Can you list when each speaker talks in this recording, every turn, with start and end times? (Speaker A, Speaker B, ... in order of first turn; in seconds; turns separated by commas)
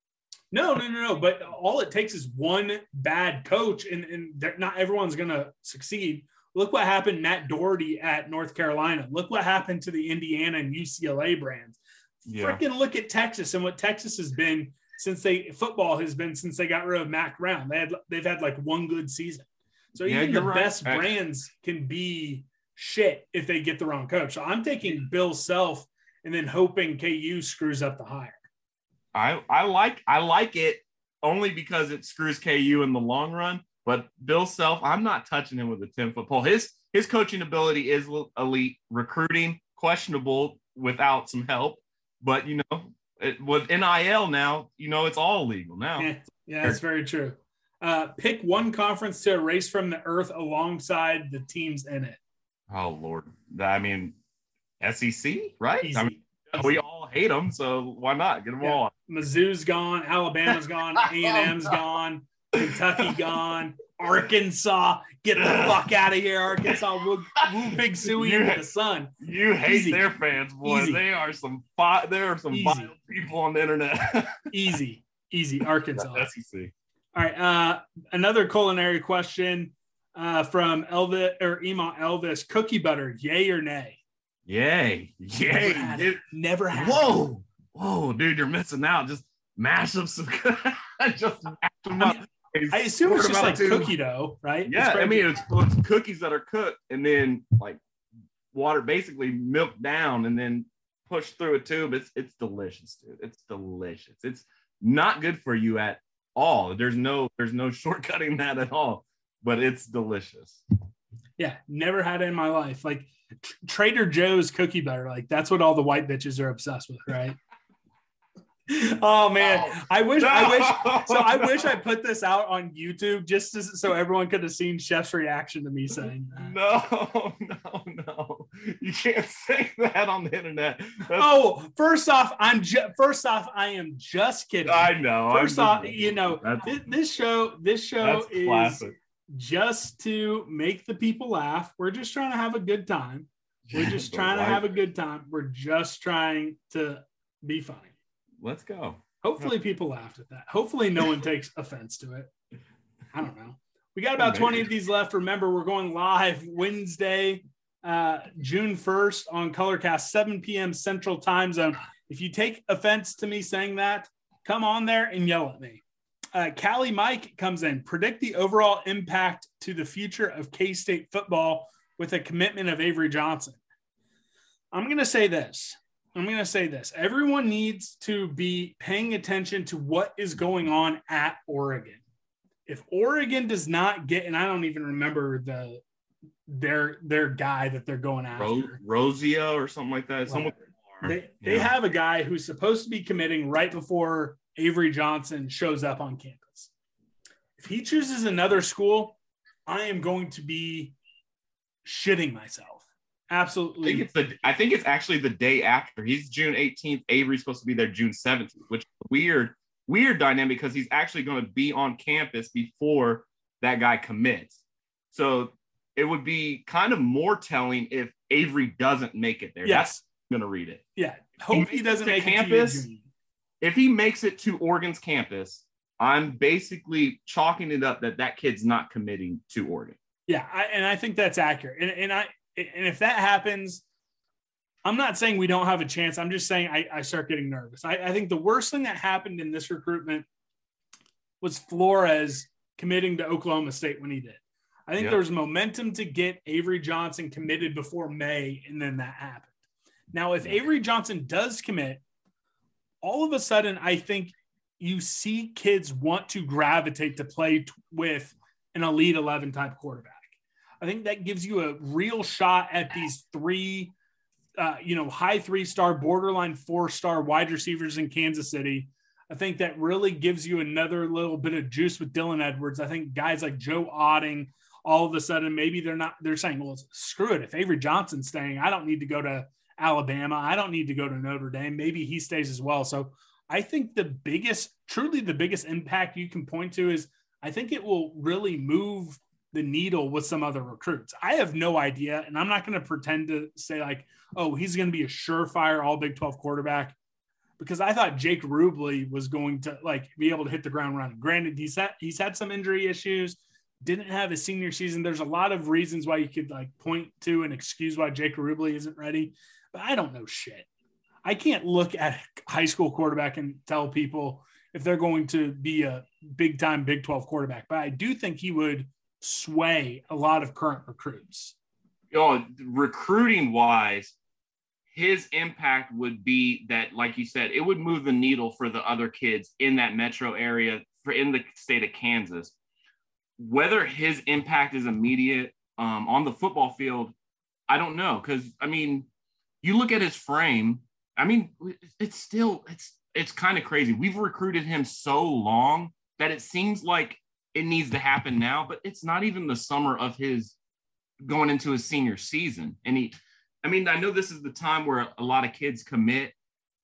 Speaker A: 0.5-11.8, Speaker B: 12.2-12.6, Speaker A: 12.4-28.4, Speaker B: 20.0-21.1, Speaker B: 29.1-46.8, Speaker A: 46.0-52.2, Speaker B: 52.7-54.2, Speaker B: 54.8-58.9, Speaker A: 55.8-56.8, Speaker A: 58.6-69.1, Speaker B: 61.2-61.5, Speaker B: 62.6-63.2, Speaker B: 65.4-65.8, Speaker B: 67.4-68.6, Speaker B: 69.2-74.7, Speaker A: 69.6-70.0, Speaker A: 70.6-71.0, Speaker A: 72.5-72.9, Speaker A: 74.5-76.3, Speaker B: 75.9-76.7, Speaker A: 77.1-84.0, Speaker B: 84.5-93.9, Speaker A: 85.3-87.1, Speaker A: 92.0-95.3, Speaker B: 94.7-97.8, Speaker B: 98.5-110.6, Speaker A: 111.4-117.4, Speaker A: 118.7-126.5, Speaker B: 119.4-121.7, Speaker B: 126.3-131.4, Speaker A: 131.1-147.9, Speaker B: 134.6-136.7, Speaker B: 138.0-138.9, Speaker B: 143.7-144.6, Speaker B: 148.4-149.5, Speaker A: 149.2-152.3, Speaker A: 153.1-165.8, Speaker B: 154.2-154.6, Speaker A: 166.3-173.6, Speaker A: 174.7-182.0, Speaker A: 182.7-185.8, Speaker A: 186.5-188.8, Speaker B: 188.4-191.7, Speaker A: 190.3-190.5, Speaker A: 191.0-196.7, Speaker A: 197.6-200.9, Speaker A: 201.8-204.1, Speaker B: 203.8-214.5, Speaker B: 215.1-220.8, Speaker A: 219.6-220.0, Speaker A: 221.0-223.1, Speaker B: 221.5-222.9, Speaker B: 223.6-230.0, Speaker A: 230.3-233.8, Speaker A: 234.8-240.3, Speaker A: 241.4-249.5, Speaker A: 250.1-252.0, Speaker A: 253.0-263.9, Speaker A: 264.6-296.9, Speaker A: 297.6-310.7, Speaker A: 311.2-321.5, Speaker B: 322.1-324.1, Speaker B: 324.9-332.5, Speaker B: 333.4-337.1, Speaker B: 337.7-339.1, Speaker B: 339.6-350.6, Speaker B: 351.2-356.3